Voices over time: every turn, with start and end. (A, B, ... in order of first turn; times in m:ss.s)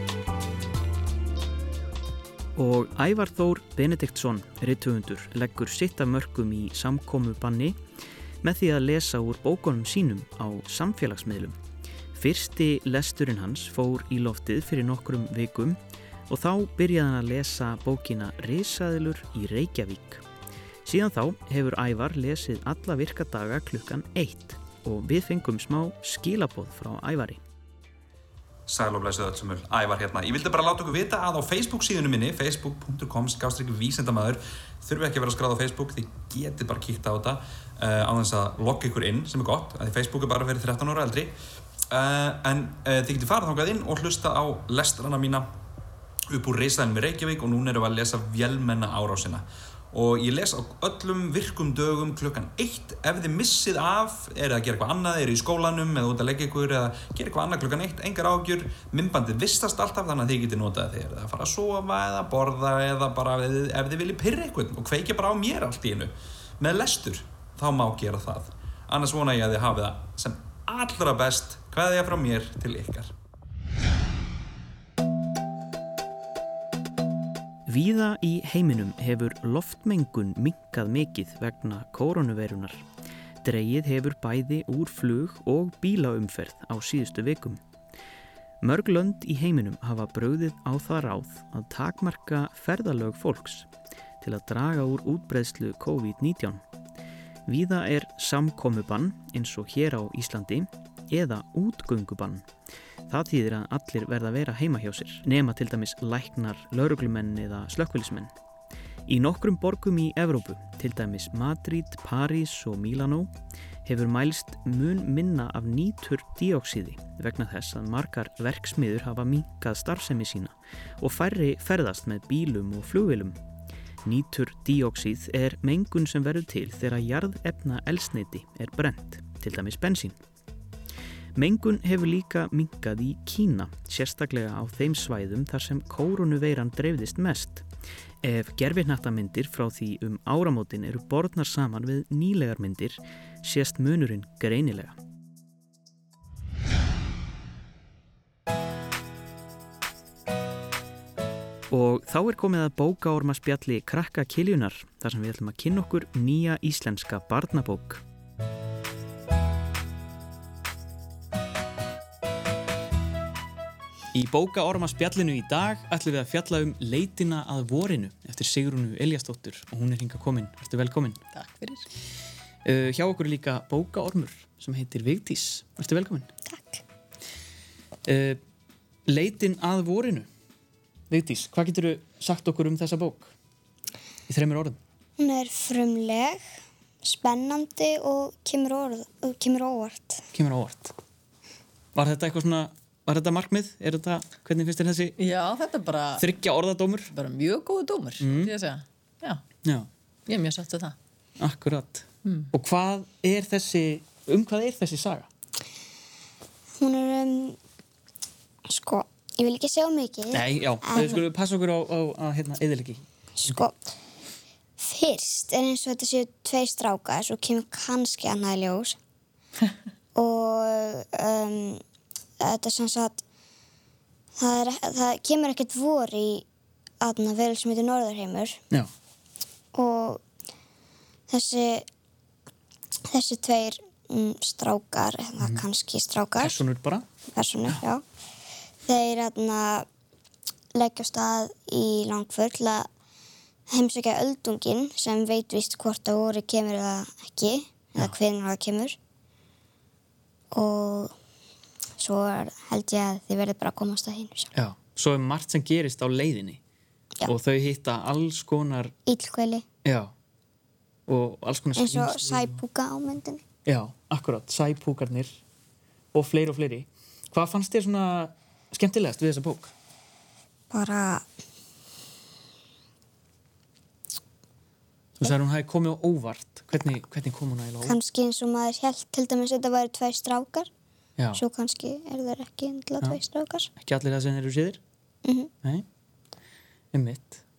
0:02.6-0:07.8 A
0:08.4-0:11.6 A
0:12.1-0:15.8 A
0:16.3-0:20.2 A
0:20.8-0:27.4 A
0:28.7-0:41.3 B
0:41.9-0:45.4 B
0:46.3-1:13.1 B
1:17.7-1:22.8 A
1:23.4-1:27.6 A
1:28.6-1:33.7 A
1:34.2-1:36.6 A
1:37.5-1:42.4 A
1:43.1-1:48.3 A
1:49.1-1:53.3 A
1:53.8-2:03.4 A
2:04.0-2:10.2 A
2:11.4-2:17.6 A
2:18.2-2:25.0 A
2:31.7-2:38.0 A
2:44.1-2:51.2 A
2:51.3-2:51.9 C
2:52.6-2:56.3 A
2:56.5-2:56.8 D
2:58.1-2:58.4 A
2:59.1-3:00.3 A
3:01.1-3:03.3 A
3:04.3-3:04.8 A
3:05.2-3:06.4 D
3:07.0-3:10.2 D
3:10.3-3:10.9 A
3:11.9-3:15.1 A
3:15.2-3:16.2 C
3:16.2-3:17.0 A
3:17.1-3:19.4 C
3:18.2-3:18.5 A
3:20.3-3:20.9 C
3:21.4-3:25.2 A
3:22.2-3:22.5 C
3:26.8-3:27.6 D
3:28.7-3:31.1 D
3:30.3-3:33.6 A
3:33.4-3:33.9 D
3:34.8-3:39.0 D
3:40.1-3:41.8 D
3:42.4-3:43.2 D
3:44.4-3:46.4 D
3:47.0-3:48.6 D
3:49.7-3:50.2 D
3:51.3-3:51.8 D
3:53.1-3:56.6 D
3:56.4-3:57.0 A
3:57.3-3:58.0 D
3:58.8-3:59.8 D
4:00.8-4:02.9 D
4:03.7-4:09.0 D
4:10.5-4:11.1 D
4:12.0-4:14.5 D
4:14.6-4:16.6 A
4:17.2-4:18.9 A
4:19.1-4:19.6 D
4:19.8-4:20.1 A
4:21.1-4:22.6 A
4:21.8-4:23.4 D
4:23.6-4:25.4 A
4:26.1-4:29.7 A
4:30.7-4:31.2 D
4:35.2-4:38.0 A
4:37.8-4:40.7 D
4:41.2-4:41.4 A
4:41.3-4:43.7 D
4:43.8-4:44.8 A
4:45.2-4:45.5 D
4:46.9-4:47.4 A